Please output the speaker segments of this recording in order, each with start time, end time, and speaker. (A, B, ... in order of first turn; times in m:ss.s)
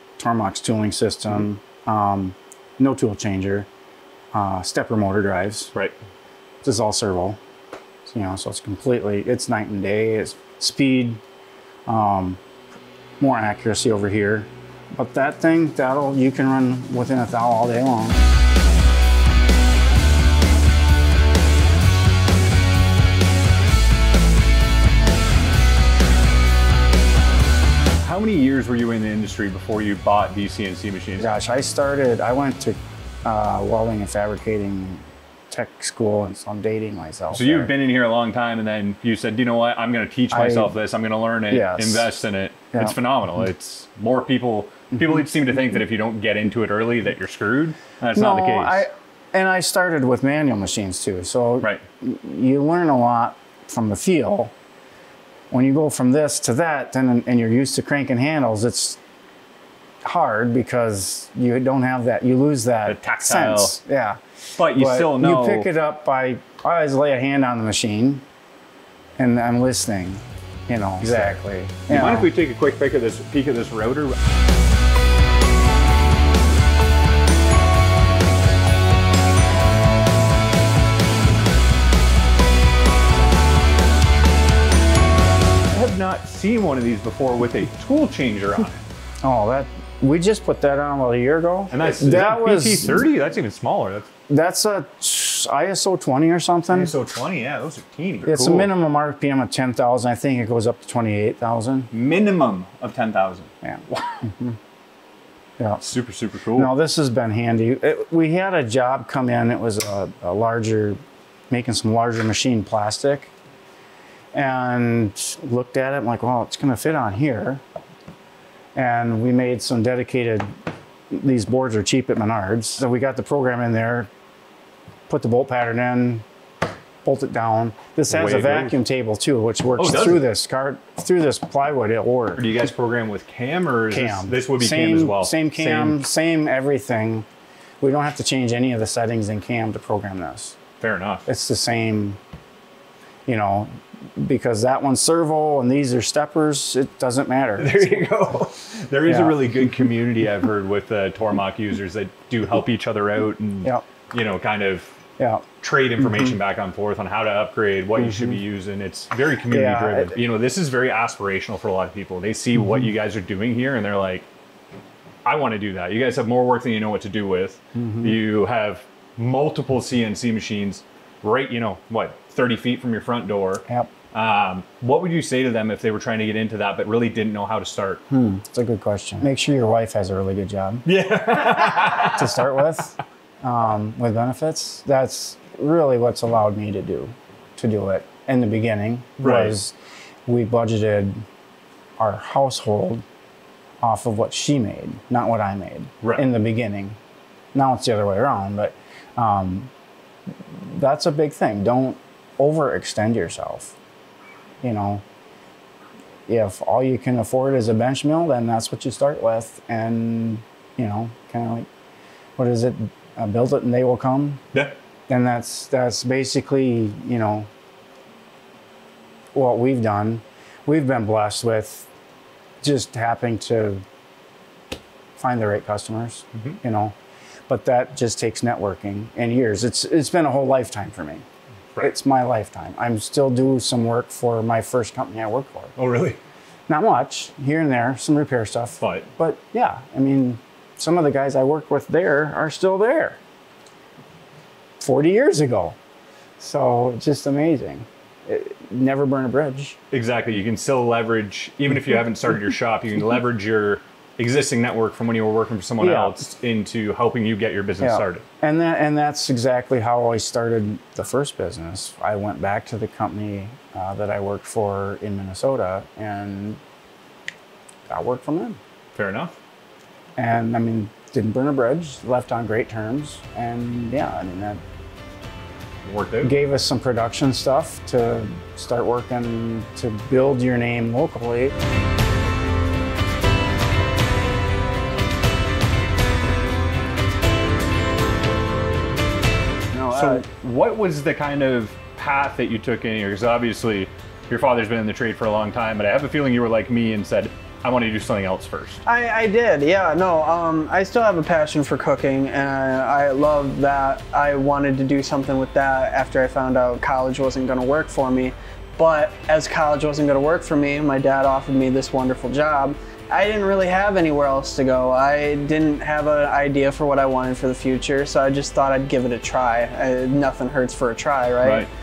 0:00.2-0:03.7 A
0:04.3-0:05.7 A
0:06.6-0:07.4 A
0:08.0-0:11.2 A
0:11.8-0:12.4 A
0:13.2-0:18.2 A
0:28.0-0:31.3 B
0:31.2-0:37.7 A
0:37.3-0:48.9 B
0:40.3-0:40.8 A
0:41.5-0:42.1 A
0:48.1-0:54.5 A
0:55.5-0:59.0 A
1:00.0-1:04.2 A
1:02.9-1:03.8 B
1:04.6-1:05.7 B
1:04.7-1:08.2 A
1:09.2-1:12.3 A
1:11.0-1:14.2 B
1:25.7-1:28.8 B
1:29.2-1:33.1 A
1:31.7-1:34.1 B
1:34.3-1:36.9 A
1:36.7-1:38.7 B
1:38.2-1:41.9 A
1:41.9-1:43.5 B
1:43.6-1:44.6 A
1:45.8-1:46.7 B
1:46.5-1:53.3 A
1:54.3-1:57.6 A
1:58.7-2:00.5 A
2:01.1-2:04.1 A
2:05.1-2:06.2 A
2:07.0-2:12.6 A
2:08.1-2:08.8 B
2:09.8-2:10.2 B
2:12.4-2:16.0 B
2:13.9-2:17.2 A
2:17.8-2:20.6 A
2:20.8-2:21.2 B
2:21.2-2:22.2 A
2:23.3-2:28.1 A
2:27.6-2:34.9 B
2:29.0-2:29.7 A
2:35.2-2:35.4 A
2:35.6-2:44.3 B
2:36.0-2:36.4 A
2:38.0-2:38.4 A
2:39.5-2:40.2 A
2:45.2-2:58.0 B
2:47.7-2:48.2 A
2:58.1-3:00.8 A
3:00.8-3:02.5 B
3:01.7-3:09.7 A
3:09.2-3:09.6 B
3:10.2-3:11.2 A
3:12.0-3:13.0 A
3:13.8-3:17.0 A
3:17.5-3:19.7 A
3:20.4-3:23.7 A
3:24.6-3:25.0 A
3:26.3-3:31.7 A
3:32.4-3:34.4 A
3:35.1-3:37.5 A
3:39.3-3:41.9 A
3:42.6-3:43.8 A
3:45.2-3:46.9 A
3:47.5-3:51.2 A
3:51.8-3:55.7 A
3:55.8-3:56.2 B
3:56.7-4:03.2 A
3:58.8-3:59.1 B
4:04.8-4:05.8 A
4:06.4-4:09.8 A
4:09.9-4:18.2 B
4:15.8-4:16.2 A
4:17.8-4:26.6 A
4:27.9-4:28.6 A
4:28.9-4:29.3 B
4:30.2-4:34.6 A
4:35.8-4:36.3 B
4:36.2-4:41.5 A
4:49.7-4:50.2 A
4:49.9-4:58.8 B
4:58.8-5:21.7 C
5:21.4-5:21.7 B